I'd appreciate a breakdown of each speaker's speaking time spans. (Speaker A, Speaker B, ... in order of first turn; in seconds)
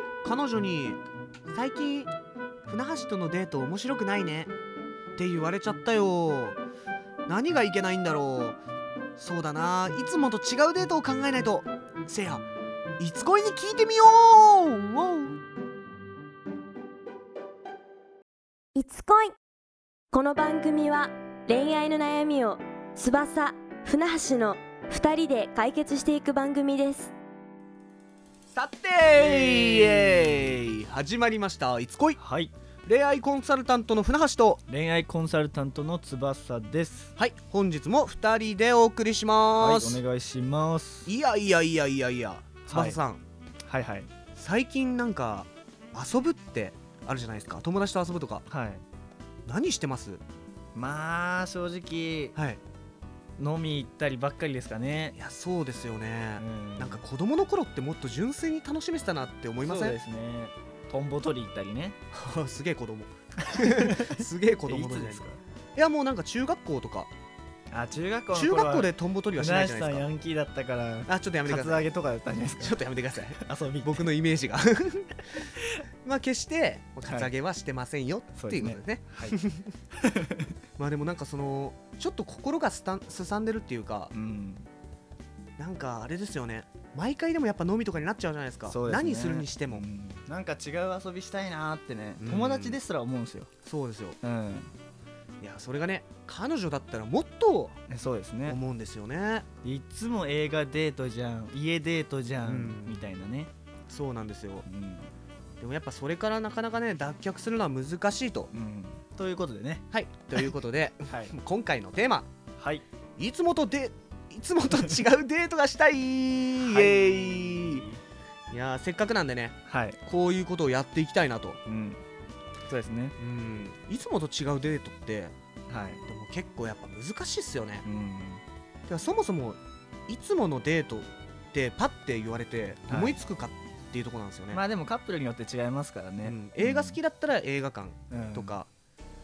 Speaker A: 0.2-2.1, 2.7-4.5, 5.2-6.6, 7.3-8.6, 9.2-12.5, 13.0-15.4, 28.5-32.2, 32.9-34.6, 37.2-40.0, 41.1-43.2, 44.4-48.5, 49.5-50.2, 52.4-52.6, 55.2-60.0, 62.1-65.2, 65.8-67.1, 68.3-70.1, 71.1-71.8, 72.6-75.5, 76.0-79.7, 80.8-84.1, 85.6-89.8, 92.2-92.8, 93.6-94.2, 95.4-97.8, 98.5-99.5, 102.4-103.0, 103.9-104.7, 105.6-108.5, 109.9-112.3, 113.2-117.8, 118.5-121.6, 123.2-125.3, 126.1-127.8, 128.9-134.6, 136.2-138.7
Speaker B: 18.8-19.3, 20.1-27.1
Speaker C: 29.1-30.6, 32.2-32.5, 34.7-37.1, 39.6-41.1, 42.7-43.0, 43.6-44.1, 48.5-48.8, 50.8-52.4, 53.4-55.2, 56.4-57.0, 59.6-62.0, 63.5-65.4, 67.7-72.8, 73.4-74.1, 77.1-77.3, 78.3-79.4, 80.0-80.5, 84.1-84.7, 88.7-93.5, 94.2-94.7, 97.9-98.6, 99.6-103.5, 104.7-105.1, 108.5-109.8, 112.6-112.8, 116.6-118.0, 119.7-120.0, 121.7-122.0, 122.7-123.2, 125.7-126.0, 127.8-128.4, 132.9-133.2, 134.5-137.0, 138.1-138.6